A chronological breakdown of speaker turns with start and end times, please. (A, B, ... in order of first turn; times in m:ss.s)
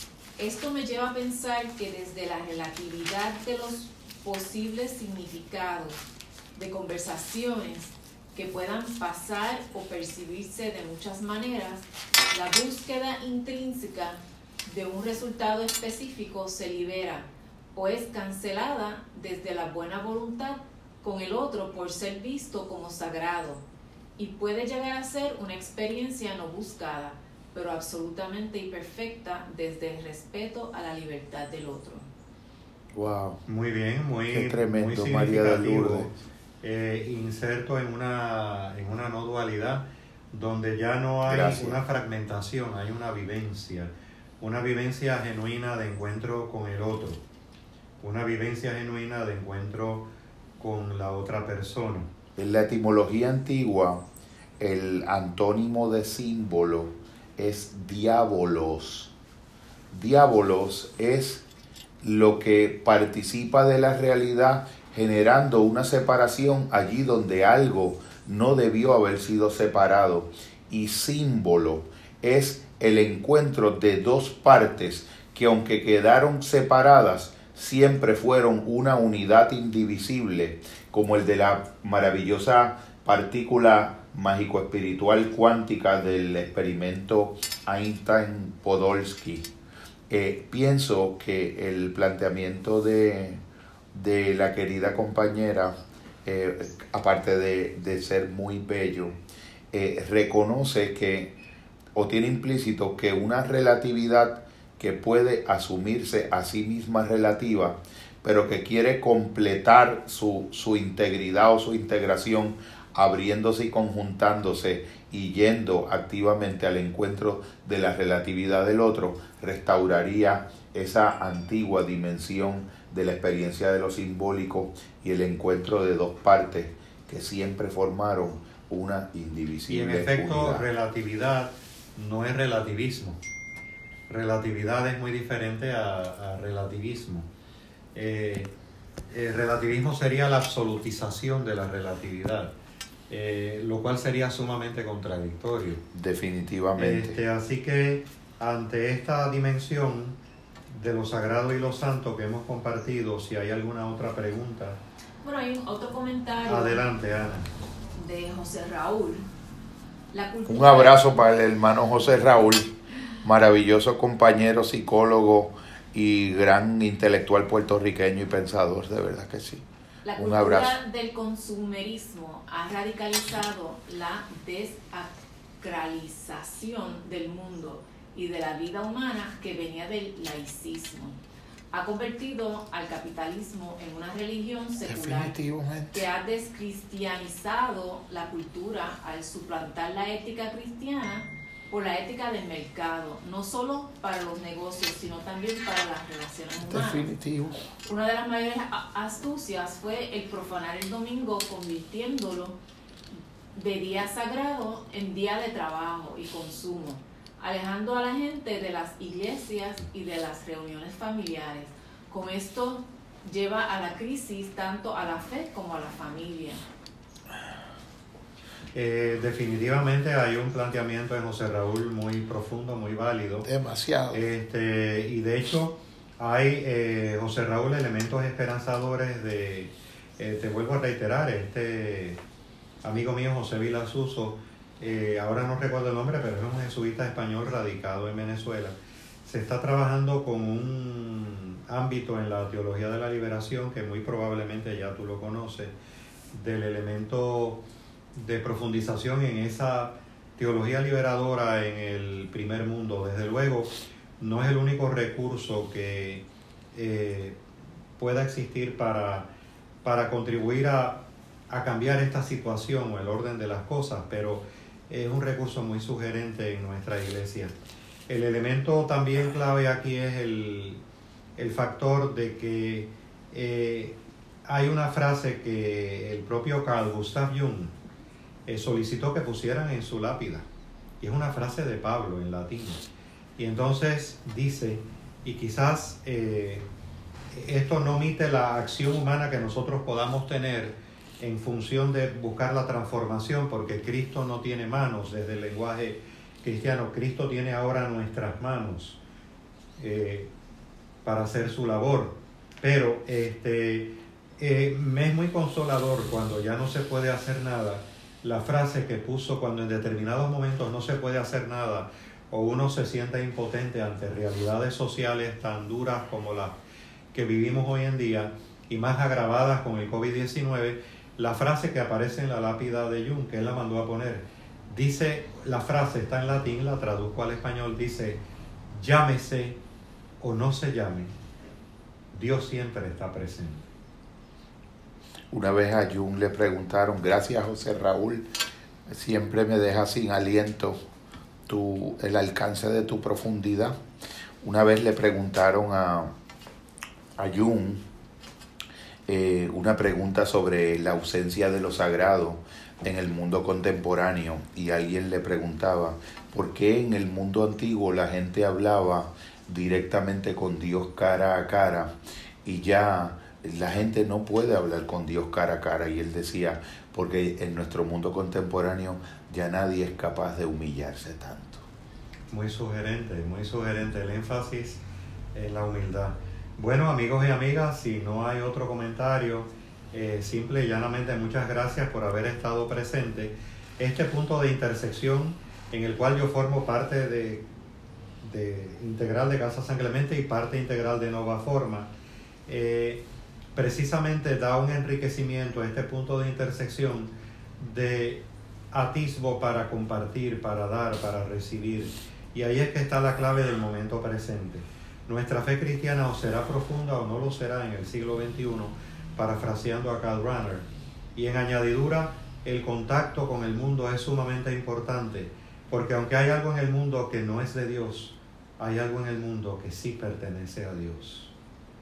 0:00.4-0:06.0 A
0:06.6-0:23.6 A
0:24.2-0:32.1 A
0:32.9-0:33.4 B
0:33.5-0:47.2 C
0:34.3-0:36.2 B
0:41.3-0:41.8 B
0:48.0-0:52.1 C
0:52.4-0:54.0 B
0:54.6-0:59.1 B
0:59.9-1:01.4 B
1:02.0-1:29.5 B
1:30.1-1:33.4 B
1:33.9-1:35.7 B
1:36.2-1:39.2 B
1:39.7-1:41.4 B
1:42.0-2:10.7 B
2:09.7-2:13.2 C
2:14.1-2:17.3 C
2:18.0-2:18.5 C
2:19.1-2:22.5 C
2:23.1-2:25.8 C
2:25.9-2:27.2 B
2:26.8-2:30.2 C
2:30.7-2:34.8 C
2:35.2-2:36.8 A
2:36.5-2:37.5 C
2:38.0-2:39.3 A
2:40.1-2:41.1 A
2:40.5-2:42.7 B
2:43.2-2:49.6 B
2:50.0-3:01.2 A
2:50.2-2:50.8 B
3:01.7-3:05.4 A
3:04.9-3:06.1 B
3:05.9-3:17.1 A
3:16.6-3:17.6 B
3:17.8-3:22.6 A
3:23.5-3:36.6 A
3:38.8-3:43.5 C
3:43.5-3:44.2 B
3:44.1-3:52.2 C
3:52.8-3:58.8 C
3:59.3-4:05.7 C
4:06.3-4:07.6 C
4:08.2-4:17.4 C
4:18.0-4:19.3 C
4:19.8-4:27.6 C
4:28.1-4:30.8 C
4:31.4-4:37.7 C
4:38.5-4:40.5 C
4:41.0-4:42.8 C
4:43.4-4:46.7 C
4:47.3-4:59.0 C
4:59.8-5:00.3 C
5:01.0-5:16.6 C
5:17.1-5:29.6 C
5:30.2-5:31.1 C
5:32.1-5:33.7 C
5:35.3-5:38.3 B
5:38.9-5:40.8 B
5:41.5-5:43.8 B
5:44.4-5:46.1 B
5:47.2-5:47.8 B
5:49.1-6:01.9 B
6:02.4-6:11.6 B
6:12.3-6:14.8 C
6:15.3-6:27.5 C
6:28.2-6:31.9 C
6:32.5-7:01.3 C